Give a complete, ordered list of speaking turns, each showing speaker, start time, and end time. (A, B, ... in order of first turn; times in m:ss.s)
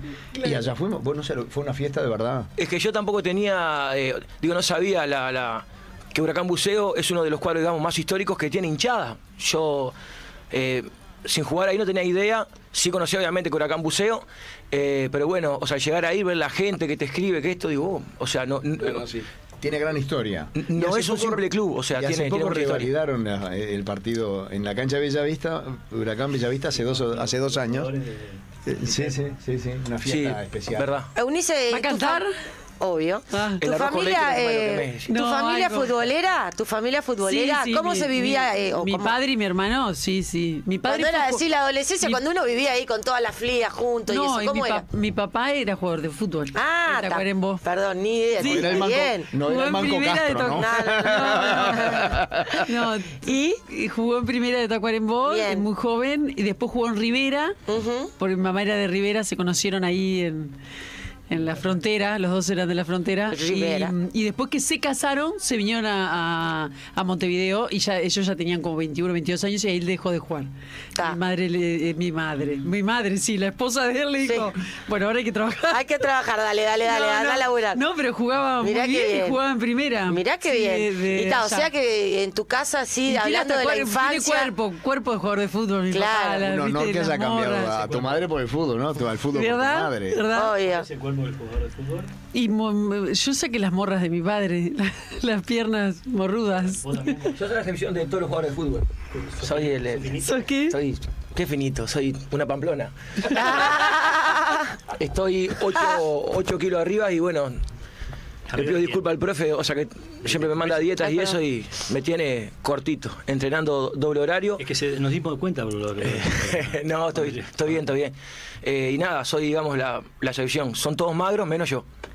0:00.4-0:02.5 A
0:02.6-0:10.0 B
0:10.5-0:19.1 B
0:18.8-0:27.9 A
0:20.6-0:22.9 B
0:26.7-0:29.2 C
0:28.7-0:30.9 A
0:30.0-0:31.1 B
0:31.2-0:32.2 D
0:31.7-0:32.3 E
0:32.8-0:39.2 D
0:33.3-0:33.6 E
0:33.6-0:35.1 B
0:35.1-0:35.9 E
0:37.2-0:41.4 E
0:40.9-0:44.8 D
0:44.1-0:47.6 E
0:46.5-0:49.3 D
0:48.4-0:48.9 E
0:48.4-0:52.7 A
0:49.4-0:57.6 E
0:50.6-0:52.2 D
0:53.2-0:53.6 D
0:55.2-0:55.7 D
0:57.7-0:58.1 D
0:58.2-1:00.6 E
1:01.3-1:10.5 E
1:03.3-1:03.9 D
1:11.0-1:15.8 E
1:15.7-1:17.8 D
1:16.8-1:21.7 E
1:18.6-1:19.4 D
1:20.1-1:24.5 D
1:23.1-1:27.8 E
1:25.9-1:26.5 D
1:26.4-1:30.3 A
1:27.7-1:28.3 C
1:29.3-1:30.6 E
1:30.3-1:30.9 D
1:30.5-1:32.1 C
1:32.3-1:37.2 E
1:36.7-1:37.4 C
1:37.4-1:38.9 B
1:39.1-1:40.5 C
1:39.4-1:44.0 B
1:40.2-1:40.8 E
1:43.3-1:44.7 D
1:44.9-1:47.6 B
1:48.5-1:49.1 C
1:48.5-1:54.6 B
1:50.3-1:50.8 C
1:51.0-1:51.4 D
1:54.6-1:57.8 C
1:56.0-2:01.9 B